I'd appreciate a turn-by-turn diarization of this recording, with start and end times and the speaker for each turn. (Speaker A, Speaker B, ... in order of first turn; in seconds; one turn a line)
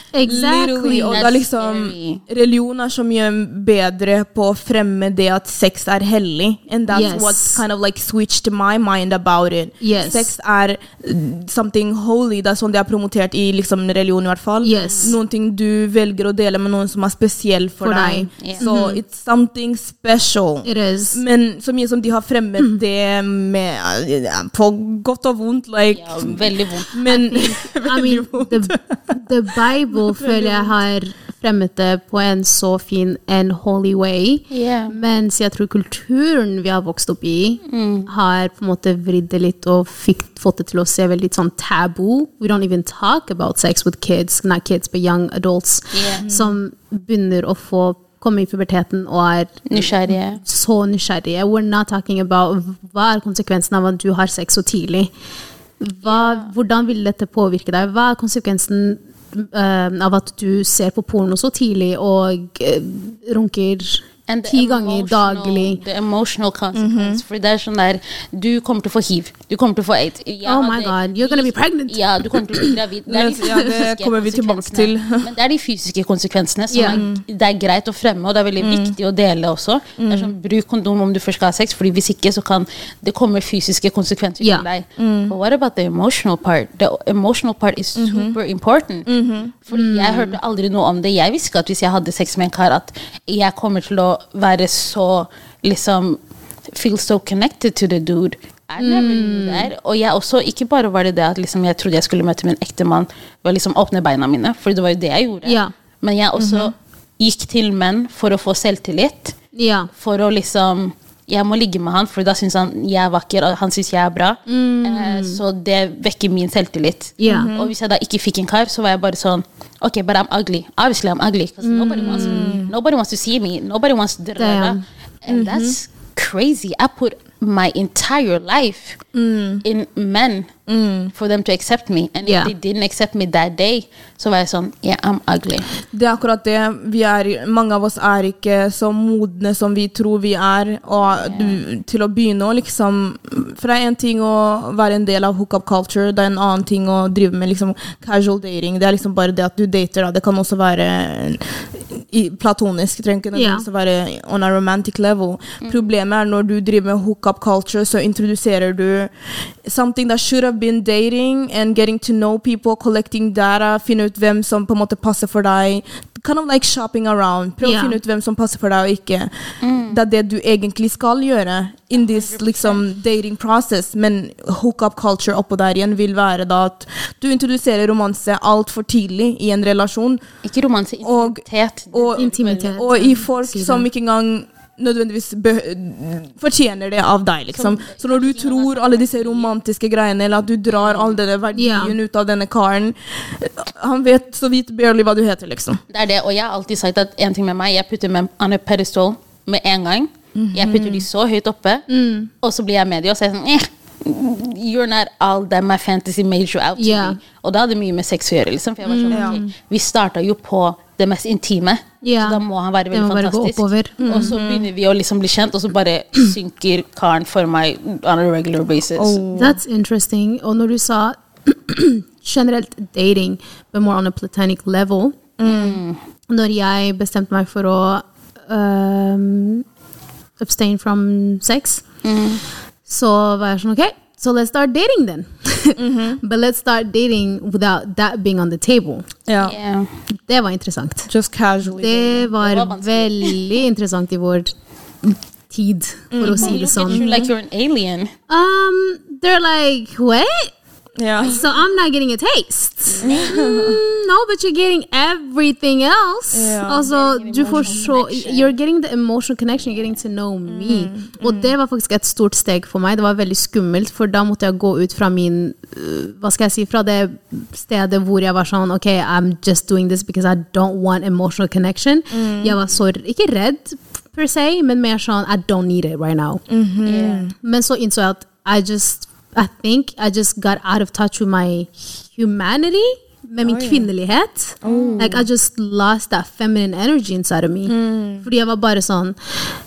Speaker A: 0.1-1.3
Speaker B: 0.2-29.0
Speaker C: 1.1-2.2
Speaker A: 6.9-7.6
Speaker A: 9.8-10.3
Speaker A: 14.6-15.2
Speaker C: 14.8-15.1
Speaker A: 17.8-19.0
Speaker C: 18.4-18.8
Speaker A: 20.6-21.2
Speaker C: 25.9-26.9
Speaker A: 27.1-55.1
Speaker B: 29.9-30.8
Speaker C: 34.5-35.0
Speaker C: 37.7-38.1
Speaker C: 45.9-46.3
Speaker B: 46.2-46.6
Speaker C: 49.7-50.4
Speaker A: 55.8-65.8
Speaker C: 56.0-56.5
Speaker C: 64.3-89.1
Speaker B: 66.8-67.2
Speaker A: 70.5-72.8
Speaker B: 73.1-75.3
Speaker A: 76.7-77.0
Speaker B: 76.9-77.2
Speaker B: 78.6-78.9
Speaker B: 80.0-80.3
Speaker A: 84.4-84.7
Speaker B: 85.0-85.3
Speaker B: 88.0-88.4
Speaker B: 89.1-89.5
Speaker C: 89.7-96.2
Speaker A: 89.7-90.4
Speaker C: 96.7-109.4
Speaker A: 98.8-99.7
Speaker A: 105.5-105.7
Speaker B: 106.4-106.7
Speaker A: 109.5-109.9
Speaker C: 110.0-129.0
Speaker A: 114.5-115.4
Speaker A: 117.2-117.5
Speaker B: 117.2-117.7
Speaker A: 121.6-122.7
Speaker B: 122.0-122.7
Speaker A: 124.4-124.8
Speaker B: 125.3-125.8
Speaker B: 129.1-129.6
Speaker C: 129.6-130.5
Speaker B: 130.7-131.1
Speaker C: 131.2-135.7
Speaker A: 132.2-132.5
Speaker B: 135.9-151.4
Speaker C: 141.2-141.6
Speaker B: 152.1-159.1
Speaker A: 153.3-153.7
Speaker C: 155.6-155.9
Speaker B: 159.6-169.3
Speaker A: 167.6-168.0
Speaker C: 169.6-170.0
Speaker B: 169.9-180.2
Speaker C: 171.9-172.8
Speaker C: 180.4-182.8
Speaker B: 181.0-195.8
Speaker A: 182.2-183.9
Speaker C: 187.5-189.5
Speaker C: 190.7-191.2
Speaker A: 191.5-192.0
Speaker C: 195.9-201.9
Speaker B: 200.3-201.1
Speaker A: 201.9-202.3
Speaker C: 202.4-219.2
Speaker A: 206.8-207.2
Speaker A: 208.8-209.4
Speaker B: 209.1-209.4
Speaker A: 212.0-214.3
Speaker B: 214.0-214.7
Speaker B: 219.0-219.6
Speaker A: 219.3-225.2
Speaker B: 225.4-225.8
Speaker C: 225.4-226.0
Speaker A: 226.3-229.7
Speaker A: 230.4-231.8
Speaker C: 232.0-232.4
Speaker A: 232.9-239.1
Speaker B: 235.8-236.2
Speaker B: 239.3-239.6
Speaker C: 239.4-239.9
Speaker A: 240.3-241.1
Speaker B: 241.1-242.2
Speaker A: 241.6-244.5
Speaker C: 242.1-243.6
Speaker A: 245.0-247.3
Speaker B: 246.1-247.3
Speaker C: 246.2-248.1
Speaker A: 248.3-250.5
Speaker B: 251.0-251.4
Speaker A: 251.2-276.4
Speaker C: 252.9-253.4
Speaker B: 253.0-253.8
Speaker B: 256.3-256.9
Speaker C: 256.8-258.5
Speaker B: 260.5-261.5
Speaker B: 272.1-272.6
Speaker B: 276.5-277.3
Speaker C: 276.8-277.3
Speaker A: 277.4-289.2
Speaker B: 283.4-283.9
Speaker B: 284.6-285.3
Speaker C: 284.6-285.1
Speaker B: 287.7-288.3